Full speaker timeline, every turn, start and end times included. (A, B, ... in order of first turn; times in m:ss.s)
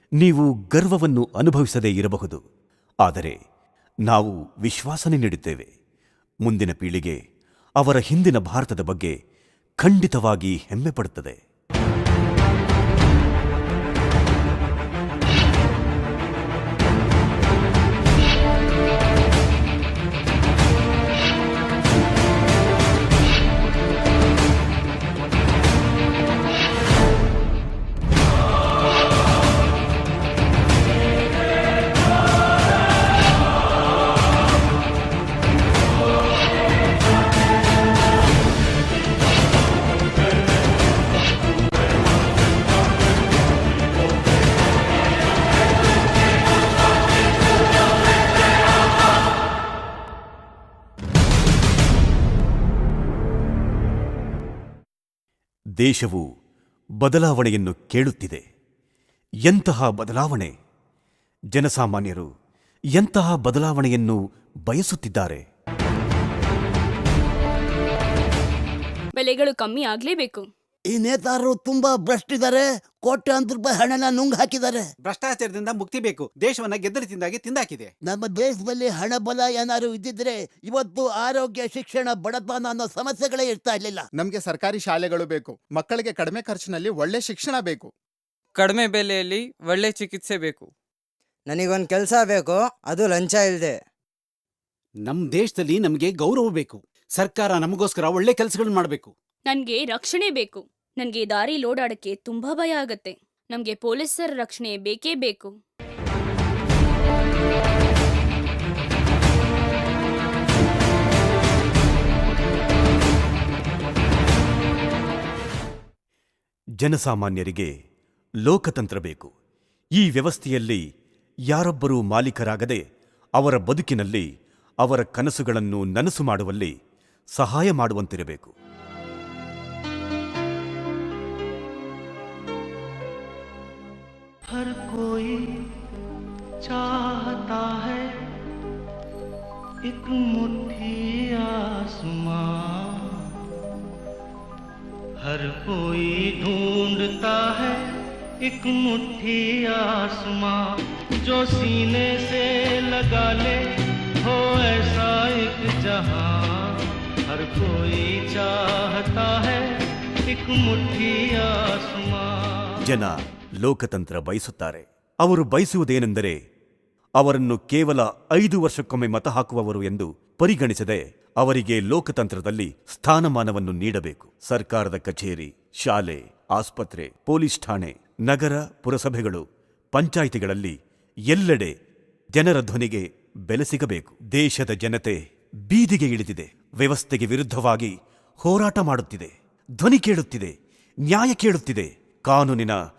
0:00.2-0:02.4 A
0:03.0-0:03.4 A
0:04.1-0:05.7 A
0:06.4-0:07.2 A
0:07.8-0:09.1 A
0:09.8-0:11.4 A
0:55.8-0:56.2 A
0:57.0-0:58.4 A
0:59.5-1:00.5 A
1:01.5-1:02.3 A
1:02.9-1:05.4 A
1:09.2-1:10.5 B
1:10.9-1:14.8 C
1:15.0-1:17.9 D
1:18.1-1:24.0 C
1:24.2-1:27.9 E
1:28.6-1:30.7 F
1:31.5-1:33.7 G
1:35.0-1:39.1 D
1:39.5-1:45.5 B
1:56.8-1:57.7 A
1:58.4-1:59.3 A
2:00.0-2:00.8 A
2:01.5-2:02.8 A
2:03.4-2:04.2 A
2:04.8-2:06.7 A
2:07.4-2:08.5 A
2:14.5-2:15.7 H
2:16.6-2:18.2 H
2:19.8-2:23.4 H
2:25.2-2:27.8 H
2:28.4-2:33.6 H
2:34.2-2:42.8 H
2:42.8-2:46.4 A
2:47.2-3:00.8 A
3:01.3-3:01.7 A
3:02.3-3:10.5 A
3:11.1-3:12.8 A